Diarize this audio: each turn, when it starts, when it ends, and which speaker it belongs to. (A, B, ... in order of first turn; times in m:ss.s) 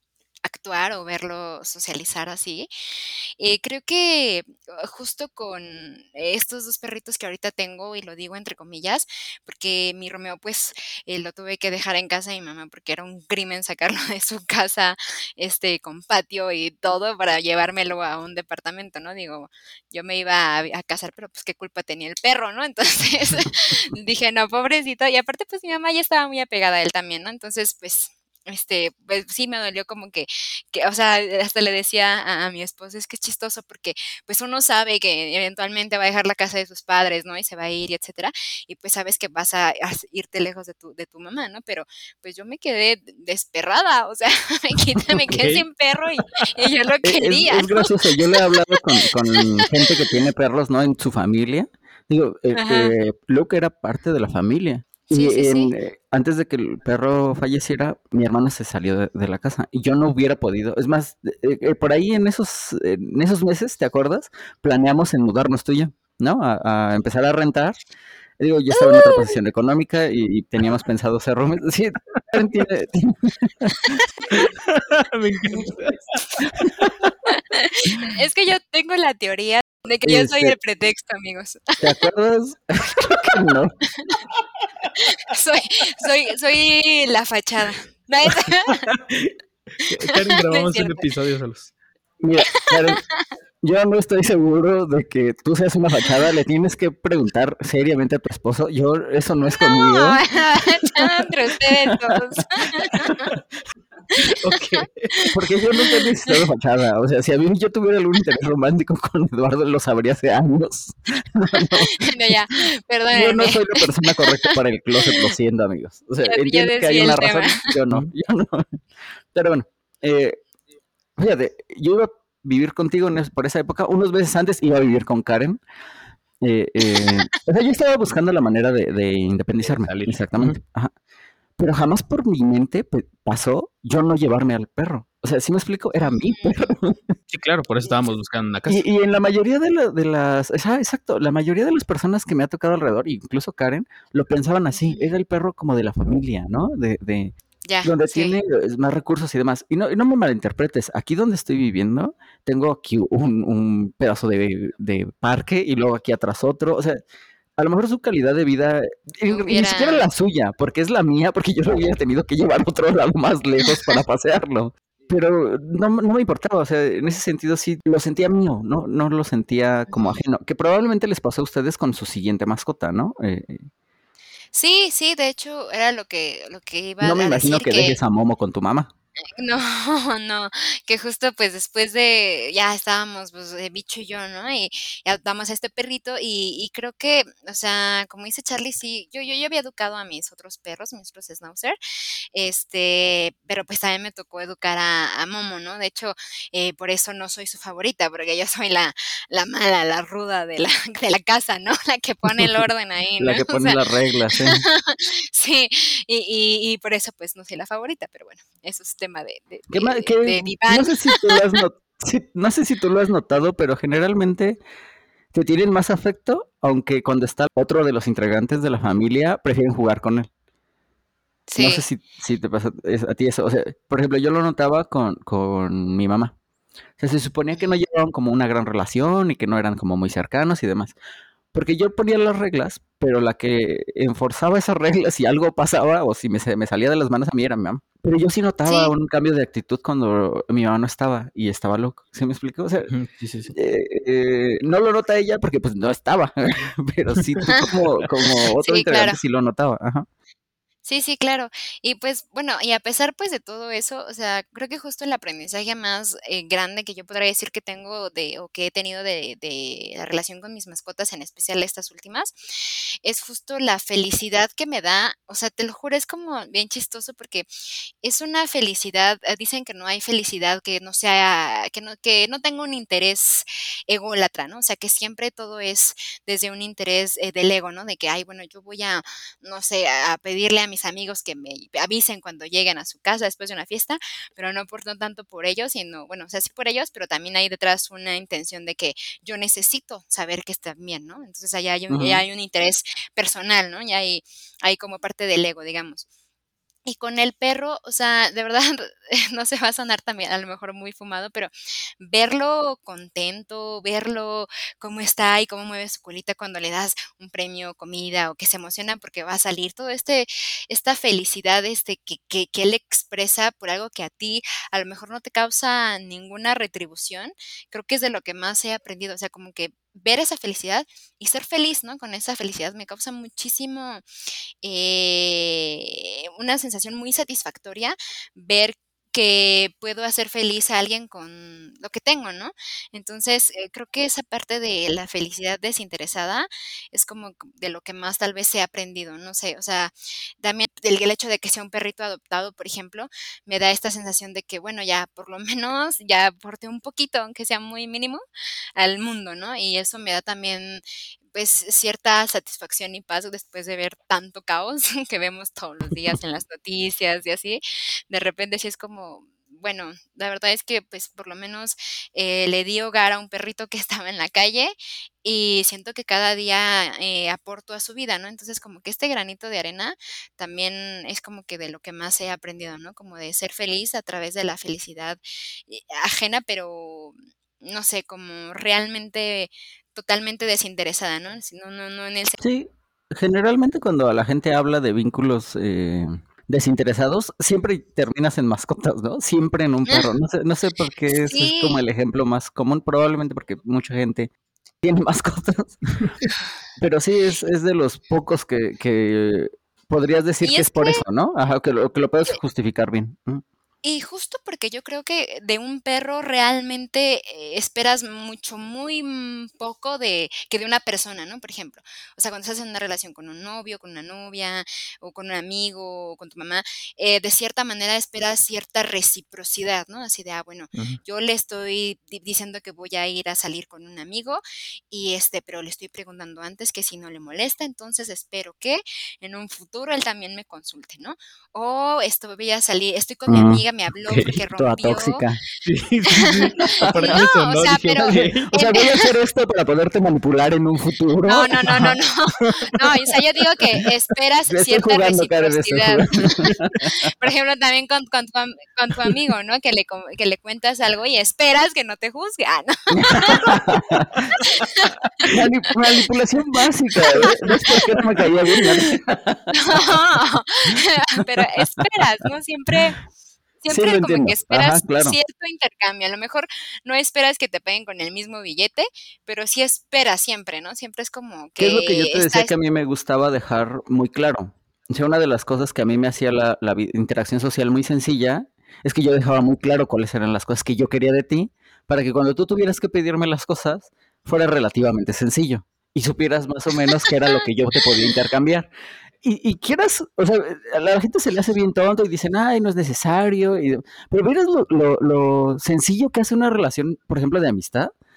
0:00.4-0:50.1 A
0:45.3-0:45.6 B
0:47.0-1:07.8 C
0:52.6-0:52.9 A
0:55.1-0:55.7 A
1:08.4-1:14.2 C
1:08.7-1:09.4 A
1:14.3-1:16.5 B
1:16.4-1:17.1 C
1:17.3-1:22.1 A
1:20.0-1:20.6 C
1:21.8-1:23.7 C
1:25.0-1:28.9 A
1:28.5-1:31.7 B
1:29.9-1:31.1 A
1:32.2-1:33.0 C
1:32.5-1:33.2 A
1:33.6-1:43.3 C
1:39.5-1:43.3 A
1:44.2-1:46.4 A
1:44.4-1:45.3 B
1:44.5-1:52.4 C
1:51.6-1:55.3 A
1:53.1-1:58.8 C
1:56.2-1:57.7 A
1:59.3-2:00.4 C
2:01.2-2:05.6 C
2:06.4-2:10.9 C
2:09.7-2:10.6 B
2:11.6-2:17.2 C
2:16.0-2:16.5 A
2:17.3-2:18.8 B
2:18.7-2:37.0 C
2:24.7-2:25.2 A
2:27.7-2:28.4 A
2:37.6-2:53.7 C
2:39.3-2:40.1 A
2:49.9-2:50.2 A
2:54.5-2:58.0 A
2:57.0-2:58.9 C
2:59.4-3:11.8 A
3:12.3-3:31.6 A
3:23.2-3:24.6 C
3:29.7-3:34.6 C
3:35.3-3:40.3 C
3:41.5-3:41.8 A
3:41.6-3:46.4 C
3:47.0-3:51.0 C
3:51.5-4:02.9 C
3:58.7-3:58.9 A
4:02.9-4:03.5 B
4:03.5-4:10.1 C
4:08.6-4:09.2 A
4:10.8-4:27.5 A
4:28.0-4:56.1 A
4:51.9-4:52.2 C
4:56.9-5:24.0 A
5:24.6-5:48.2 A
5:48.8-6:22.4 A
6:22.4-6:34.3 C
6:31.1-6:31.8 A
6:34.8-6:35.8 C
6:36.8-6:43.4 C
6:40.4-6:41.0 A
6:43.8-7:15.2 A
7:00.7-7:01.0 B
7:13.3-7:13.6 C
7:14.1-7:14.4 B
7:14.6-7:15.4 C
7:15.6-7:18.4 B
7:16.1-7:19.1 A
7:16.8-7:21.7 C
7:21.3-7:33.7 A
7:21.7-7:22.0 B
7:24.5-7:27.1 C
7:32.9-7:34.3 C
7:34.3-7:36.1 A
7:35.2-7:40.0 C
7:37.0-7:38.9 A
7:39.5-7:43.0 A
7:41.6-7:41.9 C
7:43.6-7:52.5 A
7:43.7-7:45.2 C
7:51.6-8:08.7 C
8:09.2-8:17.9 C